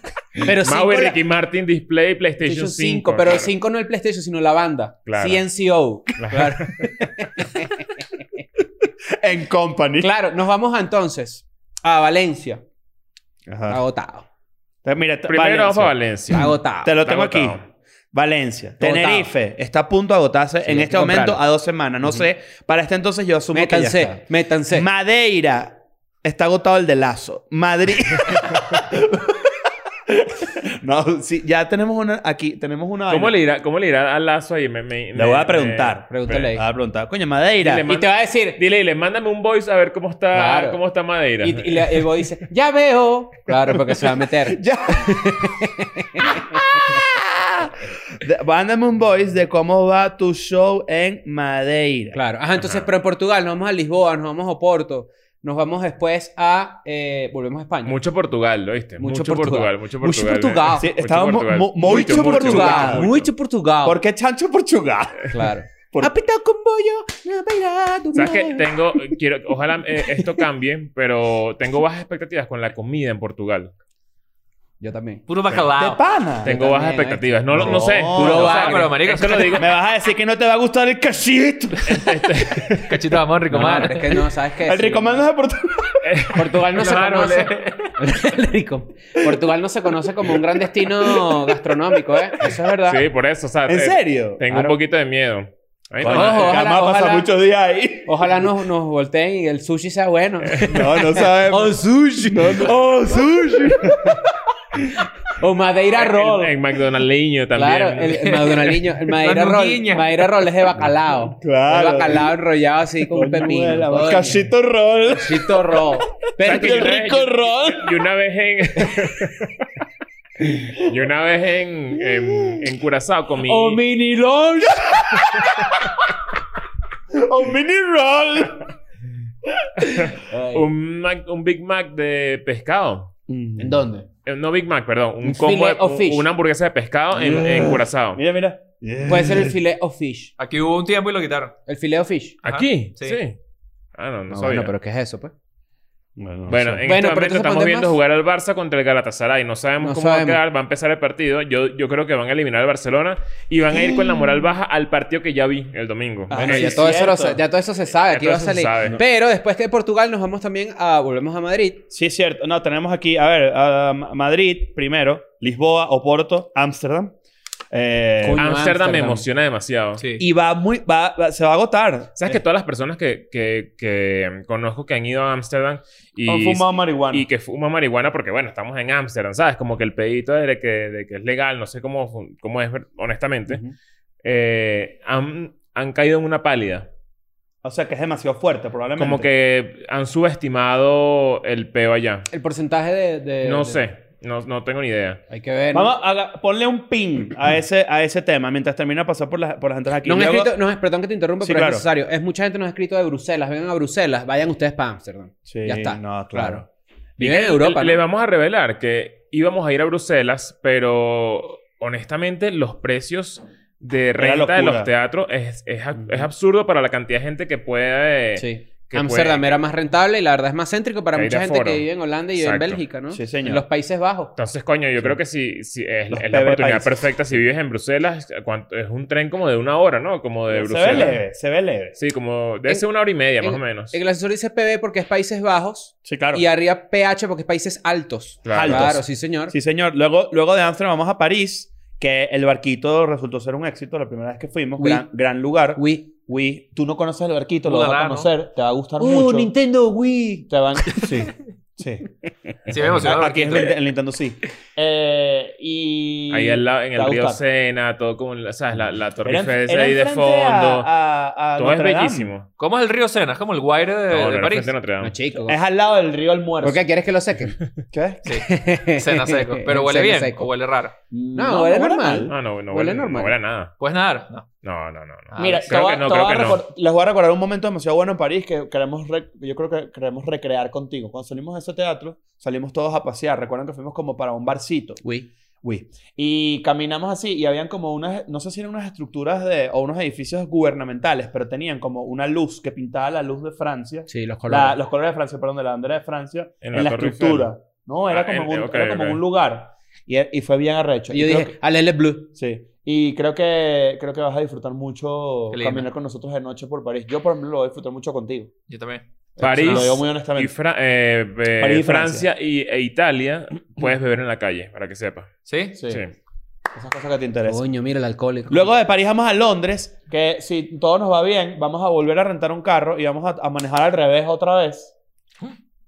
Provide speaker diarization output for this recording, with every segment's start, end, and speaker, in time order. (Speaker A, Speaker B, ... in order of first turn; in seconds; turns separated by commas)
Speaker A: 0.4-1.2, Speaker B: 0.4-3.5, Speaker A: 2.4-7.9, Speaker B: 5.1-5.4, Speaker B: 6.2-6.9, Speaker C: 9.1-10.1, Speaker A: 10.0-12.6, Speaker C: 13.5-13.8, Speaker A: 13.7-14.3, Speaker C: 14.8-17.6, Speaker B: 15.3-17.6, Speaker A: 16.3-16.9, Speaker C: 18.1-24.1, Speaker A: 18.8-19.3, Speaker A: 20.6-21.4, Speaker A: 23.5-24.9, Speaker C: 24.7-33.4, Speaker B: 33.1-36.5, Speaker C: 35.1-37.9, Speaker A: 36.1-36.6, Speaker B: 37.6-42.1, Speaker A: 37.9-38.6, Speaker A: 40.3-40.8, Speaker A: 41.4-47.0, Speaker C: 44.5-45.6, Speaker C: 46.4-52.2, Speaker A: 52.1-58.0, Speaker B: 52.6-52.9, Speaker B: 57.9-63.3, Speaker A: 59.0-60.9, Speaker C: 60.8-63.1, Speaker A: 61.9-64.0, Speaker C: 63.8-66.1, Speaker A: 65.3-68.7, Speaker B: 68.1-73.7, Speaker A: 70.0-70.4, Speaker A: 74.8-75.2, Speaker D: 75.3-76.0, Speaker C: 75.5-76.5, Speaker B: 76.4-79.6, Speaker A: 76.4-78.9, Speaker C: 77.5-82.1, Speaker D: 78.2-79.7, Speaker B: 81.9-83.0, Speaker D: 82.9-84.2, Speaker A: 83.5-85.2, Speaker C: 84.6-86.2, Speaker B: 86.0-87.7, Speaker A: 86.3-93.0, Speaker D: 86.8-87.9, Speaker C: 90.3-91.8, Speaker B: 92.9-96.6, Speaker C: 93.7-94.8, Speaker C: 96.0-98.5, Speaker A: 96.1-97.3, Speaker A: 98.1-104.2, Speaker C: 100.6-104.3, Speaker A: 104.9-106.6, Speaker B: 106.0-108.3, Speaker A: 107.5-114.4, Speaker D: 108.2-110.3, Speaker C: 110.8-112.3, Speaker C: 113.1-115.8, Speaker A: 115.1-117.0, Speaker C: 116.4-118.0, Speaker B: 116.4-119.6, Speaker B: 120.5-123.8, Speaker A: 123.4-125.0, Speaker C: 125.0-125.8, Speaker C: 127.1-128.7, Speaker C: 129.5-129.8, Speaker B: 129.9-133.1, Speaker A: 130.2-130.7, Speaker C: 133.3-133.8, Speaker A: 133.6-134.1, Speaker B: 134.2-138.2, Speaker A: 135.2-136.3, Speaker C: 137.1-139.6, Speaker A: 139.1-140.3, Speaker D: 140.4-141.6, Speaker A: 141.7-142.4, Speaker D: 142.4-143.2, Speaker B: 142.4-143.4, Speaker B: 143.9-144.7, Speaker A: 144.3-145.3, Speaker C: 146.2-146.9, Speaker B: 146.5-156.7, Speaker A: 146.9-148.0, Speaker A: 149.8-150.4, Speaker C: 156.3-157.4, Speaker A: 156.3-161.8, Speaker B: 157.9-159.0, Speaker C: 161.9-167.2, Speaker C: 167.7-168.4, Speaker A: 168.2-169.3, Speaker B: 168.3-170.0, Speaker D: 170.0-170.3, Speaker C: 170.2-172.4, Speaker B: 172.2-183.6, Speaker C: 176.3-177.3, Speaker A: 183.5-183.7, Speaker B: 184.2-186.9, Speaker C: 187.6-189.3, Speaker B: 189.0-192.3, Speaker A: 192.3-193.8, Speaker B: 193.4-195.2, Speaker A: 195.3-195.9, Speaker C: 195.7-200.5, Speaker A: 200.1-206.6, Speaker C: 201.4-201.8, Speaker C: 205.5-206.7, Speaker A: 207.2-208.0, Speaker B: 207.2-219.6, Speaker C: 214.2-214.9, Speaker A: 216.0-216.3, Speaker A: 218.4-224.3, Speaker B: 221.2-222.8, Speaker C: 223.1-223.6, Speaker B: 224.4-231.1, Speaker C: 226.1-227.0, Speaker C: 230.5-232.0, Speaker A: 230.9-231.2, Speaker B: 232.0-234.0, Speaker A: 233.4-239.5, Speaker C: 236.1-236.4, Speaker B: 238.4-239.0, Speaker C: 238.5-249.5, Speaker A: 244.8-245.1, Speaker A: 245.8-246.1, Speaker D: 247.7-248.3, Speaker A: 249.0-251.2, Speaker C: 250.5-252.1, Speaker B: 252.7-253.1, Speaker D: 252.7-253.8, Speaker C: 252.9-257.4, Speaker B: 256.3-260.9, Speaker C: 259.2-262.3, Speaker B: 261.6-262.5, Speaker D: 262.6-264.7, Speaker B: 264.1-265.1, Speaker A: 265.0-265.6, Speaker C: 265.4-266.8, Speaker A: 266.6-267.6, Speaker C: 267.9-268.2, Speaker D: 268.2-270.9, Speaker A: 268.3-270.5, Speaker C: 271.1-272.4, Speaker A: 271.4-273.4, Speaker B: 272.3-273.8, Speaker D: 273.8-274.5, Speaker B: 274.6-276.6, Speaker D: 275.3-275.7, Speaker C: 275.4-285.0, Speaker A: 285.0-285.3, Speaker C: 285.6-301.6, Speaker A: 294.1-294.8, Speaker B: 296.6-297.5, Speaker B: 298.1-299.2, Speaker A: 301.1-302.3, Speaker C: 302.4-308.5, Speaker D: 305.5-305.9, Speaker D: 308.7-310.0, Speaker C: 309.4-310.5, Speaker B: 309.4-315.3, Speaker C: 311.6-312.3, Speaker D: 315.5-315.8, Speaker C: 315.8-316.0, Speaker C: 316.7-317.6, Speaker A: 317.5-318.7, Speaker C: 318.5-324.9